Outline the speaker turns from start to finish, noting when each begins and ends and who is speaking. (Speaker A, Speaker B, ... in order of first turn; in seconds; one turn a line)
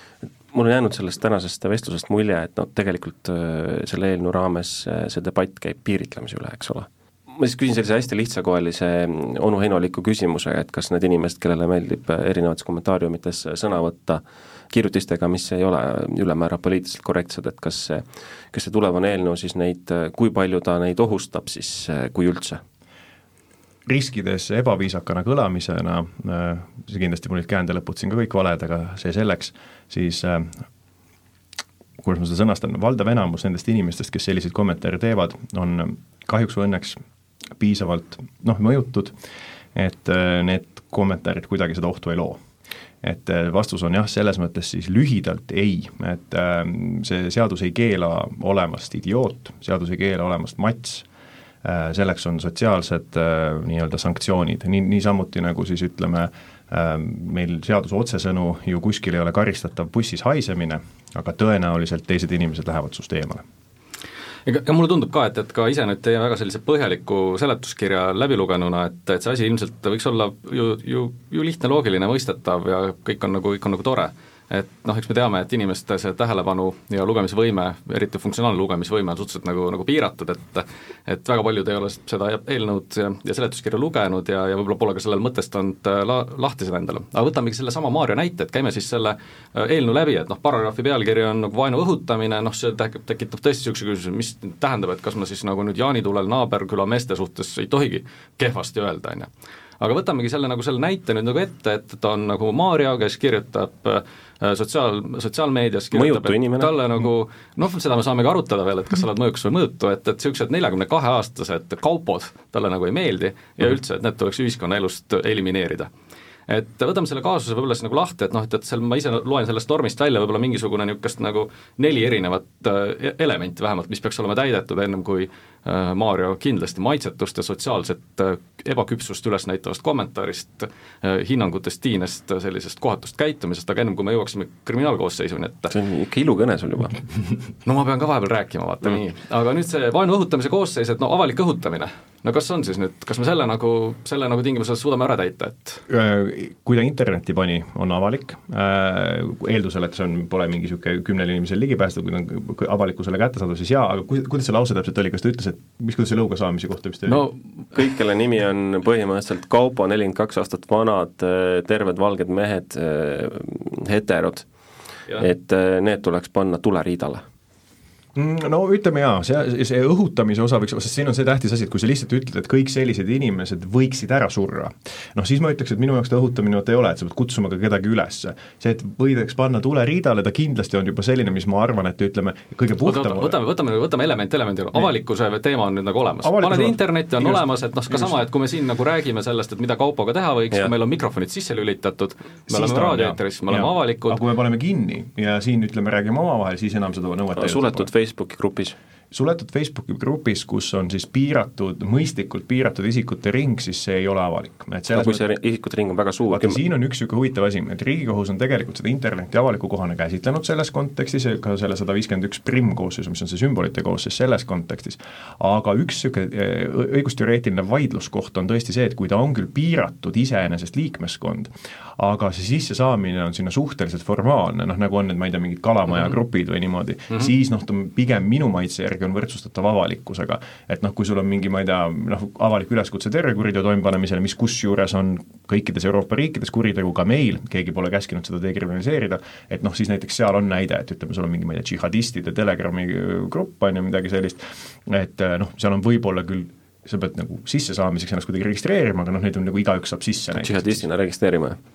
Speaker A: 0.5-22.6
Speaker B: 23.9-30.6
Speaker B: 32.0-37.0
Speaker B: 37.6-39.1
Speaker B: 39.7-42.4
Speaker B: 43.0-51.1
Speaker B: 51.6-63.4
Speaker C: 64.5-115.9
Speaker A: 105.9-106.7
Speaker C: 116.5-135.7
Speaker A: 135.7-136.9
Speaker C: 137.7-145.8
Speaker B: 145.9-157.3
Speaker A: 157.8-164.5
Speaker A: 165.1-167.2
Speaker B: 168.2-183.4
Speaker C: 182.8-194.2
Speaker B: 186.2-188.1
Speaker B: 192.5-197.9
Speaker A: 197.4-198.8
Speaker B: 199.1-205.2
Speaker A: 204.9-206.6
Speaker B: 206.3-250.8
Speaker A: 250.4-251.6